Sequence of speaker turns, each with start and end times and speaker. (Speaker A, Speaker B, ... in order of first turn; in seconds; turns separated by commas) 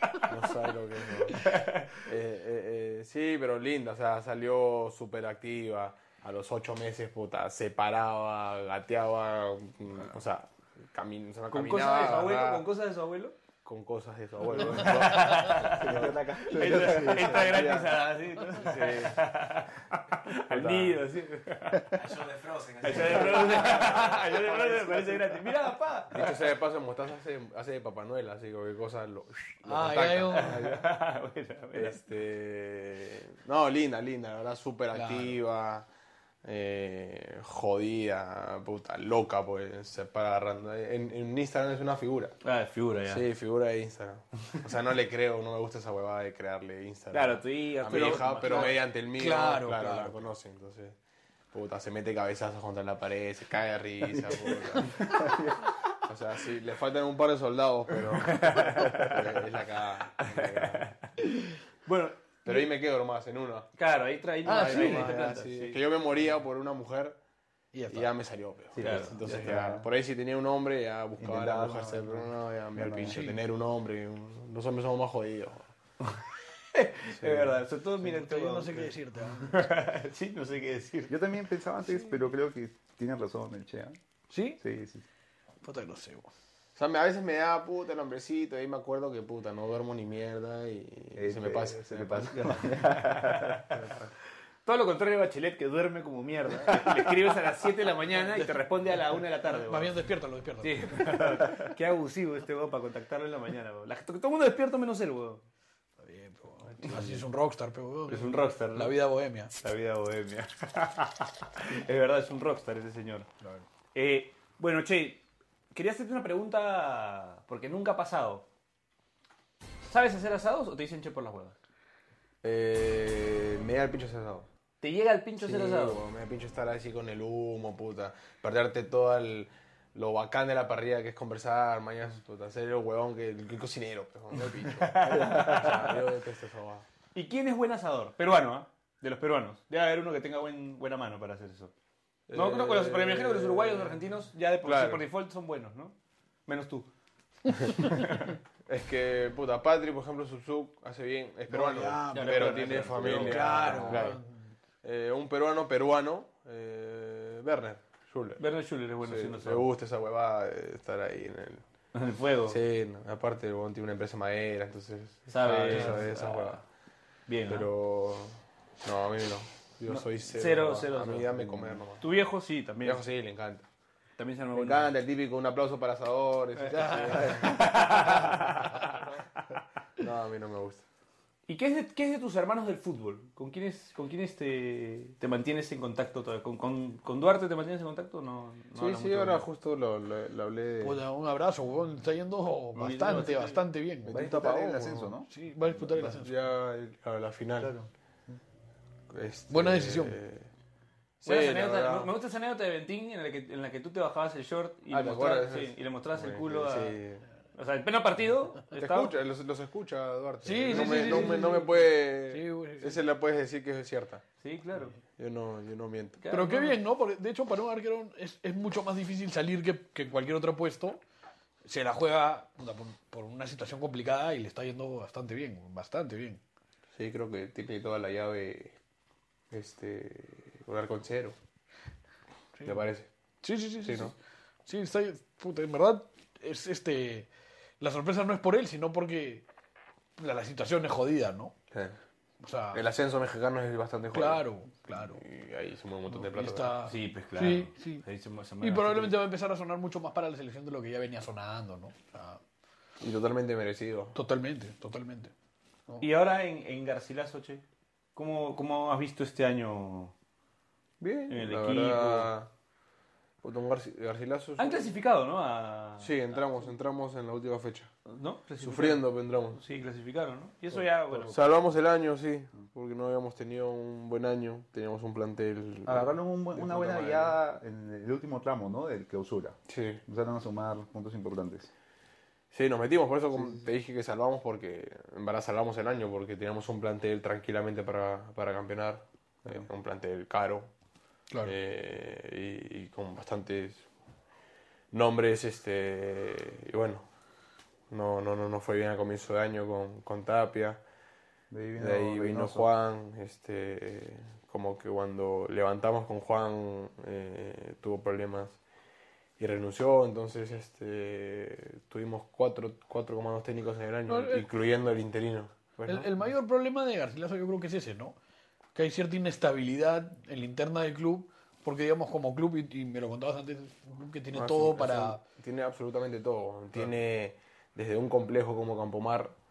Speaker A: 0.2-12.6, Speaker B: 1.4-1.9, Speaker B: 11.5-13.4, Speaker A: 13.6-19.2, Speaker B: 14.5-21.9, Speaker C: 15.7-17.8, Speaker A: 20.5-21.1, Speaker D: 21.9-24.9, Speaker B: 22.8-26.4, Speaker A: 23.1-23.6, Speaker A: 26.1-30.8, Speaker E: 29.6-30.6, Speaker B: 30.3-32.0, Speaker C: 30.6-30.8, Speaker A: 31.7-35.9, Speaker E: 34.9-35.4, Speaker A: 36.4-42.4, Speaker B: 42.4-43.2, Speaker A: 43.1-51.0, Speaker B: 47.1-48.8, Speaker E: 47.9-50.2, Speaker A: 51.5-55.3, Speaker C: 55.0-55.6, Speaker A: 56.0-60.9, Speaker B: 58.2-59.3, Speaker B: 60.2-61.1, Speaker B: 61.9-62.6, Speaker A: 62.5-63.7, Speaker B: 63.8-65.8, Speaker E: 64.5-65.3, Speaker A: 64.5-67.2, Speaker E: 67.7-68.1, Speaker A: 67.9-75.7, Speaker C: 68.7-69.9, Speaker B: 68.8-69.4, Speaker C: 71.2-73.3, Speaker E: 73.0-73.4, Speaker B: 76.7-81.2, Speaker A: 77.1-77.5, Speaker E: 78.0-79.6, Speaker C: 81.1-84.0, Speaker E: 84.3-84.6, Speaker C: 84.6-85.0, Speaker E: 85.6-86.3, Speaker A: 86.8-92.9, Speaker C: 91.2-93.7, Speaker B: 92.6-93.6, Speaker A: 93.7-94.1, Speaker B: 94.7-100.0, Speaker E: 99.5-101.4, Speaker B: 100.6-105.4, Speaker E: 106.0-109.5, Speaker B: 106.8-107.2, Speaker B: 108.1-109.0, Speaker B: 109.5-113.3, Speaker B: 113.9-115.2, Speaker B: 115.7-118.5, Speaker B: 119.8-121.6, Speaker A: 122.4-124.5, Speaker B: 124.8-126.0, Speaker A: 125.4-136.9, Speaker B: 134.4-136.0, Speaker B: 137.1-141.7, Speaker A: 142.3-144.0, Speaker B: 142.3-145.9, Speaker A: 144.6-145.0, Speaker B: 146.5-146.9, Speaker B: 147.8-148.3, Speaker A: 148.7-154.2, Speaker E: 151.5-154.6, Speaker B: 152.1-154.1, Speaker A: 154.8-158.4, Speaker B: 158.4-159.7, Speaker A: 159.0-161.6, Speaker B: 161.9-162.6, Speaker A: 162.5-166.6, Speaker B: 165.3-166.6, Speaker B: 167.3-167.7, Speaker A: 167.5-172.1, Speaker B: 169.9-173.0, Speaker A: 172.8-173.7, Speaker B: 174.2-174.9, Speaker A: 174.5-178.7, Speaker B: 176.6-178.8, Speaker E: 176.7-178.0, Speaker A: 180.0-180.8, Speaker B: 181.5-189.5, Speaker A: 188.8-191.0, Speaker E: 190.8-194.1, Speaker B: 192.8-193.6, Speaker A: 194.1-195.1, Speaker C: 194.1-195.3, Speaker E: 195.3-196.3, Speaker A: 195.8-197.7, Speaker C: 197.6-197.9, Speaker A: 199.1-200.5, Speaker E: 199.5-200.2, Speaker A: 201.2-202.1, Speaker B: 201.2-207.0, Speaker A: 204.9-207.3, Speaker B: 207.5-209.2, Speaker A: 208.7-214.2, Speaker E: 210.4-213.0, Speaker B: 210.7-211.4, Speaker B: 214.4-215.0, Speaker A: 215.1-216.2, Speaker B: 216.2-216.8, Speaker E: 216.3-221.0, Speaker E: 221.7-226.4, Speaker A: 226.9-228.8, Speaker A: 229.5-231.4, Speaker E: 232.6-232.9, Speaker A: 232.7-233.1, Speaker E: 233.4-234.2, Speaker A: 233.8-234.1, Speaker E: 234.7-237.3, Speaker E: 237.8-239.4, Speaker E: 240.2-241.5, Speaker A: 241.7-242.0, Speaker E: 242.4-242.8, Speaker A: 242.7-244.5, Speaker E: 244.1-245.2, Speaker A: 245.1-246.8, Speaker E: 246.1-248.0, Speaker B: 246.8-249.2, Speaker E: 248.6-252.4, Speaker A: 253.0-254.2, Speaker E: 254.2-255.3, Speaker B: 256.0-257.6, Speaker B: 258.1-260.1, Speaker A: 261.0-262.5, Speaker B: 261.3-262.3, Speaker A: 263.4-264.9, Speaker B: 264.6-266.1, Speaker A: 266.0-267.9, Speaker B: 268.1-271.4, Speaker A: 268.6-269.6, Speaker A: 271.2-277.4, Speaker C: 275.9-279.6, Speaker A: 279.7-280.0, Speaker C: 280.1-281.7, Speaker A: 282.5-290.7, Speaker A: 291.4-293.9, Speaker A: 294.9-297.1, Speaker A: 297.9-300.8, Speaker C: 301.5-302.7, Speaker A: 301.8-308.6, Speaker A: 309.4-316.1, Speaker E: 314.1-314.5, Speaker E: 315.9-318.2, Speaker E: 318.8-325.2, Speaker A: 324.3-329.3